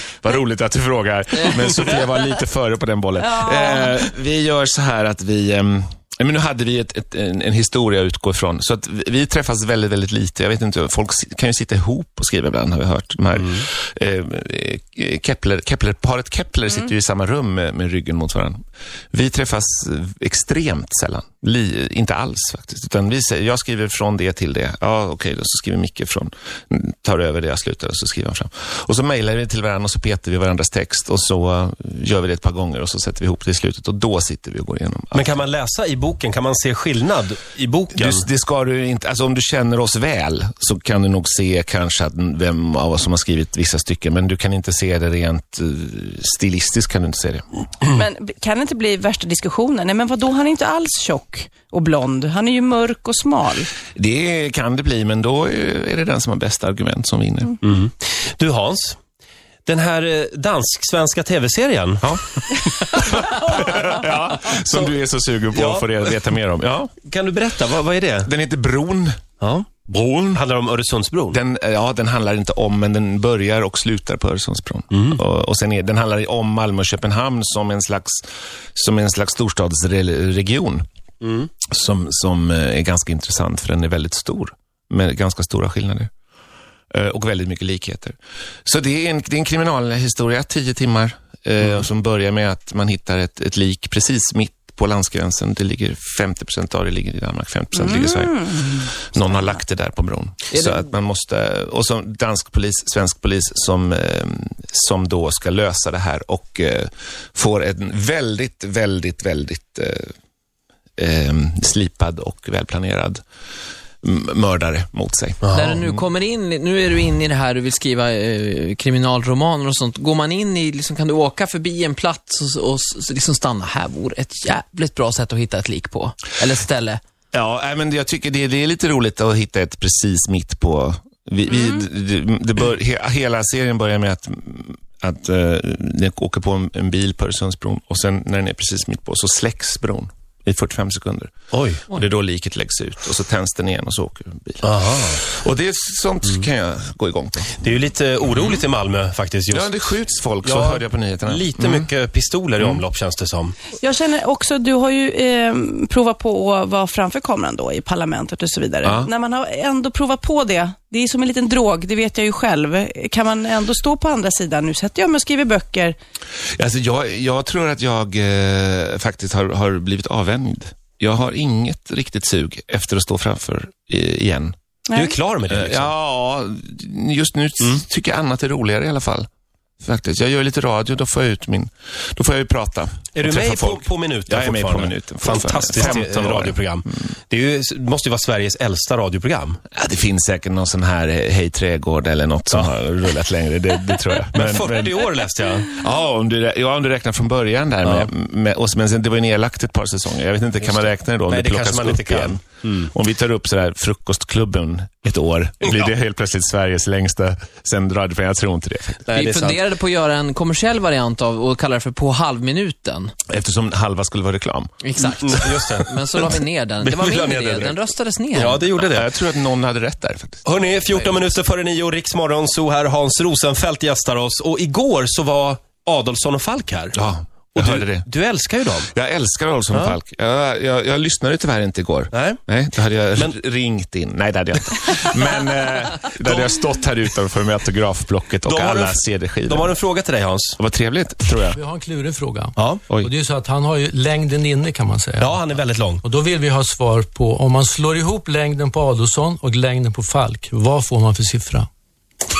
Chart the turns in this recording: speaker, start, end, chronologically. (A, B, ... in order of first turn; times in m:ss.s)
0:00.2-0:18.6 A
0:01.5-0:02.0 B
0:03.2-0:04.0 C
0:13.4-0:13.6 B
0:19.1-0:35.4 A
0:35.1-0:38.2 B
0:37.9-0:47.4 A
0:47.9-0:53.7 C
0:54.0-0:57.6 A
0:57.6-0:59.0 B
0:59.6-1:02.1 B
1:02.0-1:06.9 A
1:04.5-1:04.9 B
1:05.5-1:06.2 B
1:07.0-1:08.3 B
1:08.2-1:09.2 A
1:09.4-1:09.7 B
1:09.9-1:10.4 A
1:10.3-1:11.4 B
1:11.3-1:18.2 A
1:14.9-1:15.2 B
1:18.7-1:20.8 A
1:21.2-1:21.5 B
1:21.7-1:26.1 A
1:26.9-1:50.1 A
1:37.7-1:39.6 C
1:40.5-1:40.8 D
1:51.0-1:53.2 A
1:54.0-1:56.0 A
1:55.4-1:55.7 B
1:55.5-2:07.0 D
2:07.3-2:21.3 A
2:11.5-2:11.8 C
2:21.5-2:22.0 B
2:21.9-2:27.6 A
2:24.6-2:25.2 B
2:27.6-2:29.8 B
2:29.5-2:31.9 A
2:30.4-2:33.6 B
2:33.8-2:46.0 C
2:38.8-2:39.1 A
2:46.6-2:54.5 A
2:54.9-2:55.1 C
2:54.9-2:55.9 B
2:55.5-2:59.3 A
2:59.8-3:06.7 A
3:03.1-3:09.6 B
3:09.7-3:15.0 A
3:14.3-3:15.7 B
3:15.7-3:29.0 A
3:17.8-3:18.1 B
3:20.6-3:22.9 B
3:29.0-3:29.6 B
3:29.1-3:33.1 D
3:33.3-3:34.7 A
3:34.8-3:38.6 D
3:35.0-3:37.8 B
3:38.3-3:39.1 B
3:38.8-3:41.1 A
3:40.4-3:47.0 B
3:46.9-3:48.0 A
3:47.5-3:48.9 B
3:48.9-3:59.8 A
3:52.1-3:52.4 B
3:56.2-3:56.5 B
3:58.4-4:00.6 B
4:00.6-4:01.6 A
4:01.5-4:05.4 E
4:02.6-4:02.8 B
4:05.2-4:06.0 B
4:06.0-4:11.7 E